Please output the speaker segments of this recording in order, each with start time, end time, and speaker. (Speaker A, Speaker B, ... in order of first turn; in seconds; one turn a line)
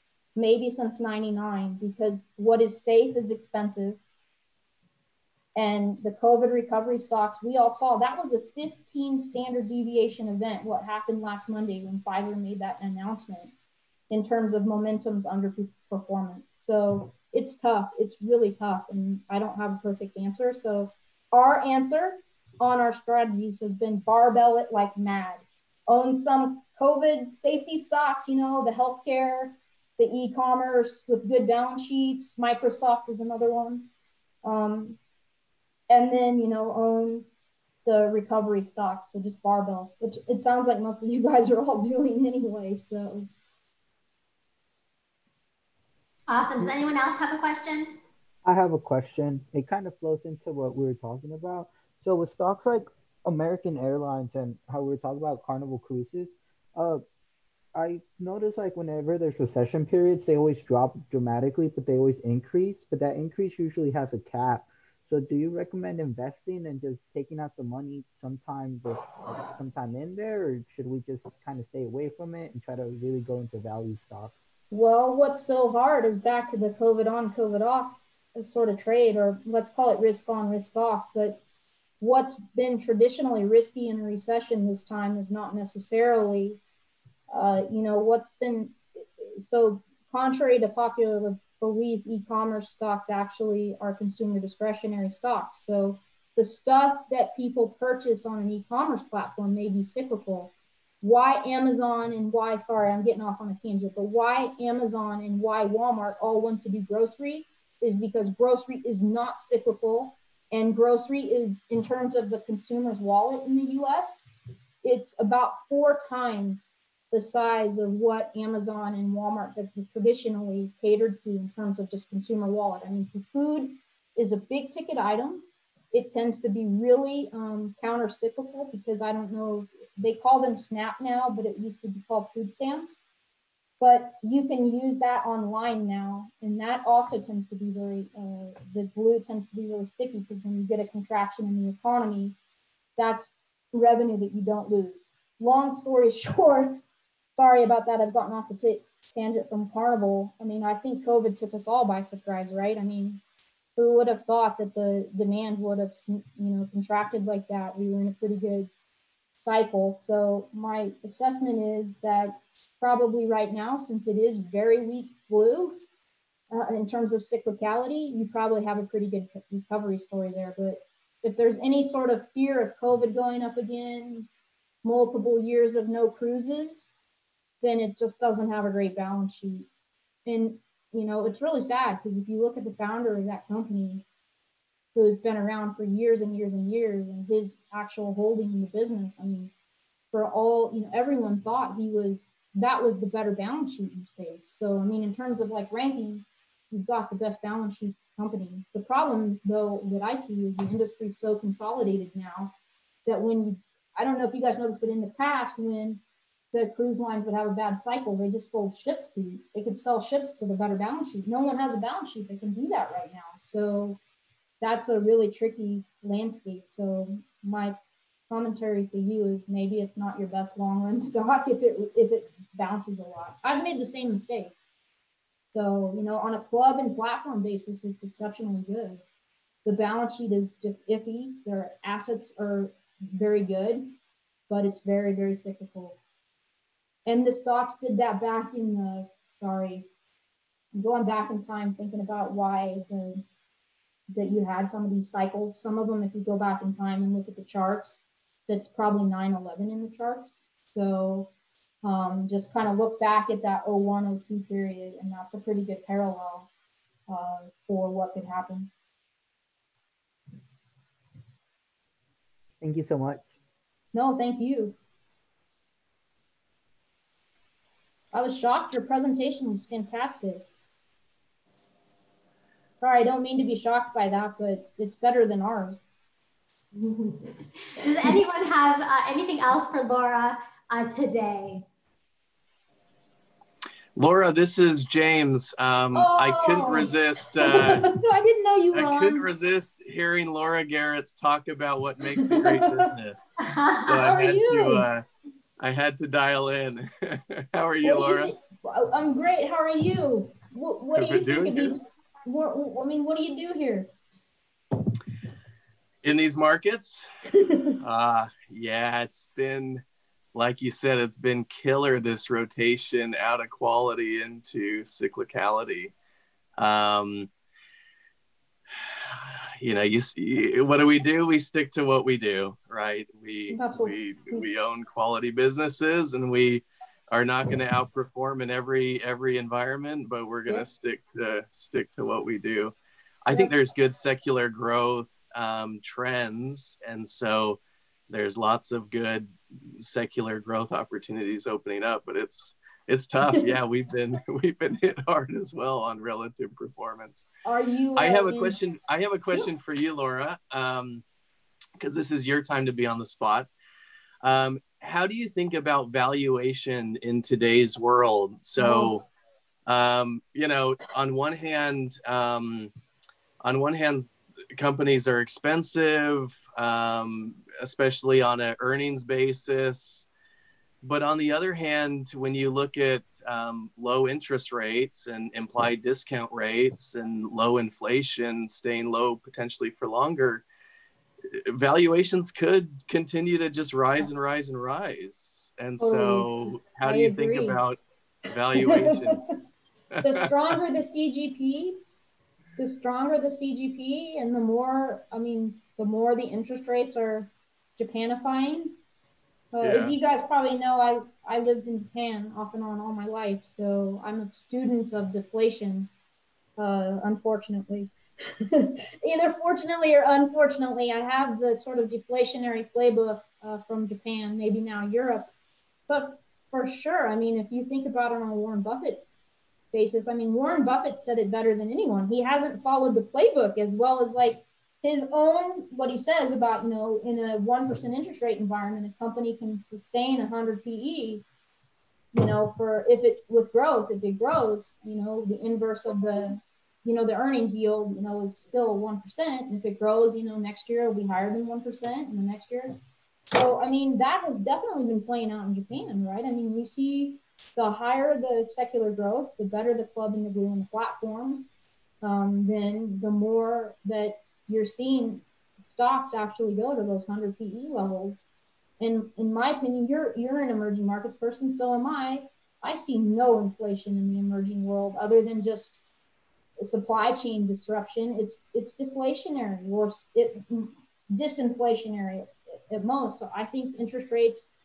Speaker A: 0.3-4.0
Speaker A: 5.5-13.5
Speaker A: 14.1-33.9
Speaker A: 34.4-35.0
Speaker A: 35.9-37.3
Speaker A: 37.8-43.3
Speaker B: 46.3-48.0
Speaker C: 48.4-57.0
Speaker C: 57.7-74.3
Speaker A: 74.7-81.4
Speaker A: 82.0-86.6
Speaker A: 87.3-114.2
Speaker A: 114.8-133.0
Speaker A: 133.8-142.3
Speaker A: 143.0-146.8
Speaker A: 147.3-153.2
Speaker A: 153.8-158.7
Speaker A: 159.4-165.8
Speaker A: 166.5-174.3
Speaker A: 174.8-176.9
Speaker A: 177.6-179.7
Speaker A: 180.2-184.0
Speaker A: 184.9-189.5
Speaker A: 190.1-202.5
Speaker A: 203.1-206.0
Speaker A: 206.5-214.0
Speaker A: 214.6-217.8
Speaker A: 218.3-224.5
Speaker A: 225.5-229.0
Speaker A: 229.6-233.9
Speaker A: 234.5-236.0
Speaker A: 237.0-239.9
Speaker A: 240.7-243.2
Speaker A: 244.1-251.3
Speaker A: 251.8-256.5
Speaker A: 257.1-258.7
Speaker C: 262.6-263.3
Speaker A: 263.9-264.8
Speaker A: 268.1-270.4
Speaker A: 272.8-275.8
Speaker B: 276.7-281.6
Speaker D: 283.9-287.9
Speaker A: 285.9-289.3
Speaker B: 286.5-286.9
Speaker D: 288.7-293.3
Speaker A: 292.1-292.9
Speaker B: 293.4-294.0
Speaker D: 293.8-295.1
Speaker A: 294.0-294.9
Speaker D: 295.6-298.3
Speaker A: 297.8-303.9
Speaker D: 300.9-301.8
Speaker D: 306.0-307.1
Speaker A: 307.3-307.8
Speaker D: 307.8-309.8
Speaker D: 310.3-315.9
Speaker D: 316.6-317.3
Speaker D: 318.7-347.2
Speaker A: 323.5-324.5
Speaker A: 343.2-343.5
Speaker A: 347.4-348.6
Speaker D: 347.9-351.0
Speaker D: 351.8-353.5
Speaker D: 354.2-359.1
Speaker A: 358.6-358.9
Speaker D: 359.6-362.7
Speaker D: 363.4-370.1
Speaker D: 370.8-380.4
Speaker D: 381.3-389.2
Speaker A: 385.8-387.6
Speaker A: 388.5-389.4
Speaker D: 389.9-390.6
Speaker A: 390.0-391.8
Speaker A: 392.6-398.7
Speaker A: 399.5-405.9
Speaker D: 399.6-399.9
Speaker A: 406.6-415.3
Speaker A: 415.9-419.0
Speaker A: 419.7-431.2
Speaker A: 432.1-442.8
Speaker A: 443.3-451.5
Speaker A: 452.0-458.3
Speaker A: 458.8-465.8
Speaker A: 466.6-474.5